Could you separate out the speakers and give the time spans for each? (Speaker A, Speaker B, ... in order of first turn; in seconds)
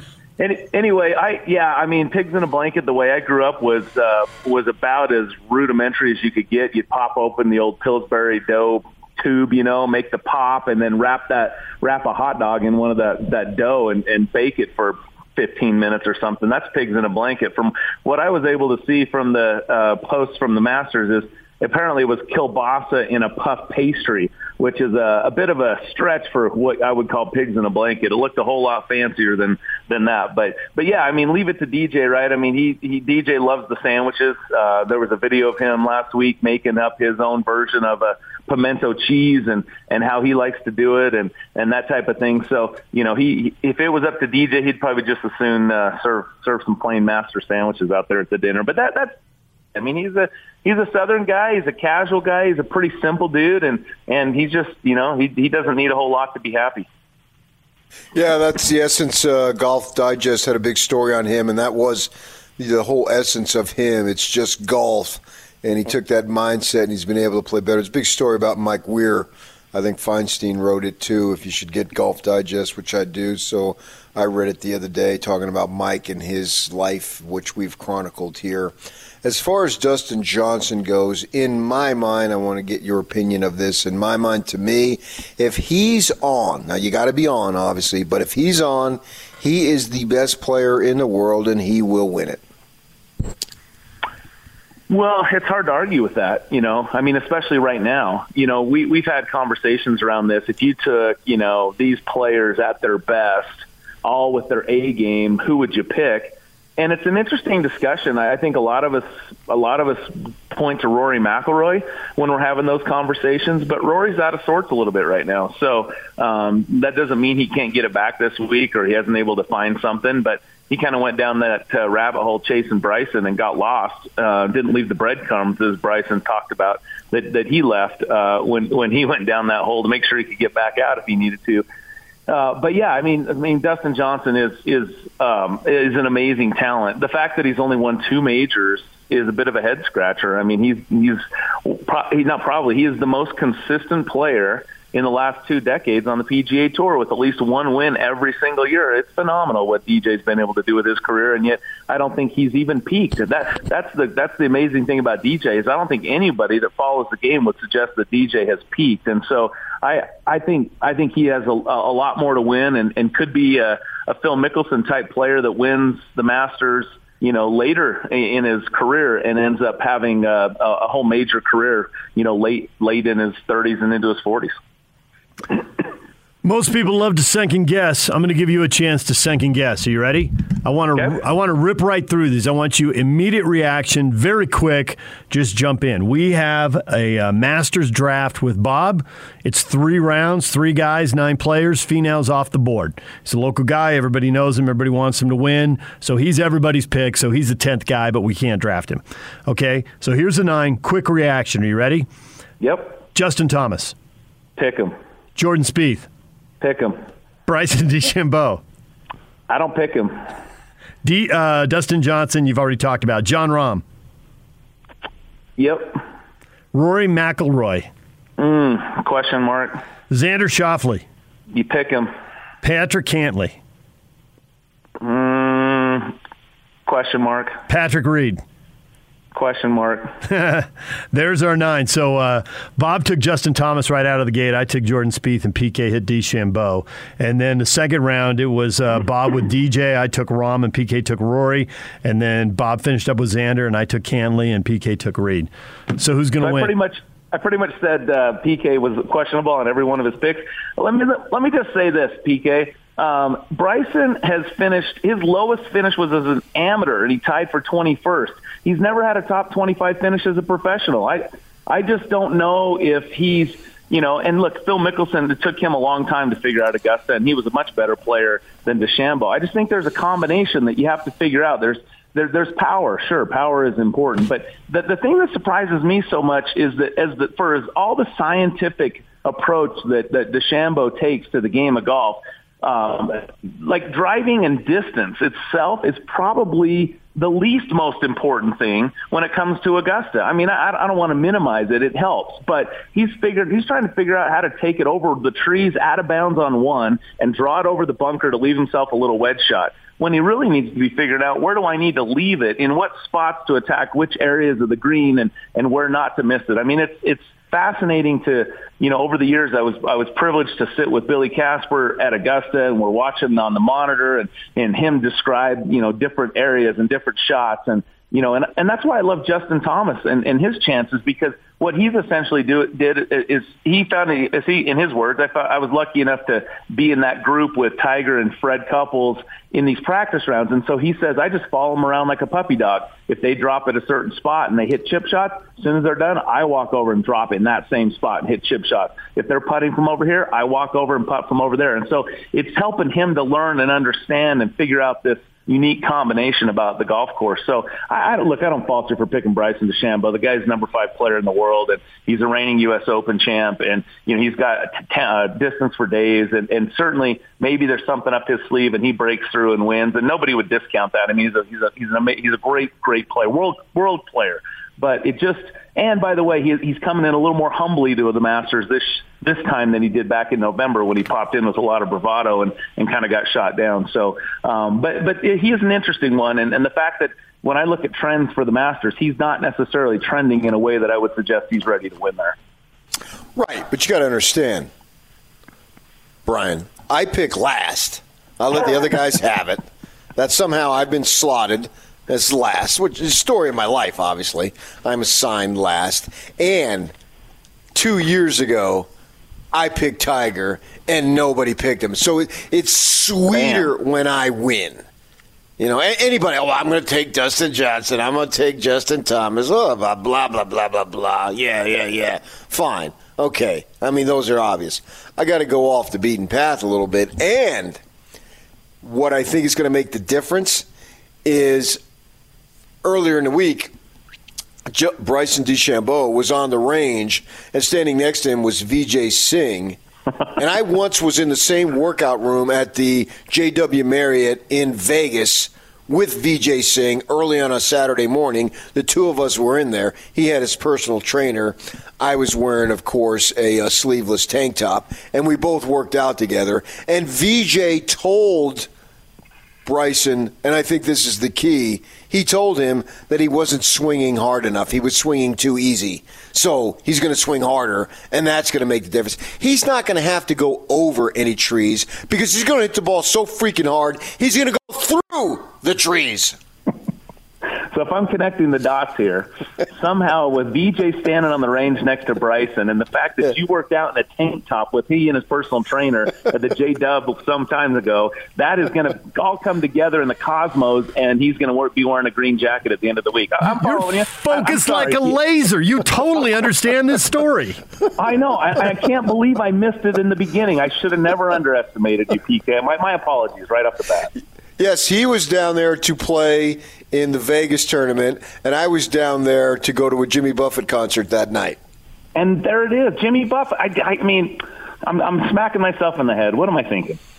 Speaker A: 0.4-49.2, 49.8-56.9, 94.9-131.6, 132.3-174.6, 202.6-203.0, 204.6-205.0, 206.6-207.0, 209.5-210.2, 215.6-216.0, 218.4-219.8, 221.5-222.1, 225.0-226.2, 226.9-227.6, 229.3-230.1, 246.4-382.4, 467.7-485.1, 488.0-494.1, 502.1-507.0
Speaker B: 58.1-92.4, 383.4-384.7, 386.3-389.6, 390.2-396.9, 397.7-398.9, 399.5-404.8, 405.6-417.8, 418.8-420.7, 421.2-421.8, 422.8-423.7, 424.7-429.8, 430.4-448.7, 449.6-466.4, 494.6-501.6
Speaker C: 176.4-202.1, 203.1-203.9, 205.4-206.1, 207.5-208.6, 211.0-213.8, 216.7-217.9, 220.1-221.1, 222.6-223.6, 227.7-228.4, 230.2-246.7, 483.6-487.6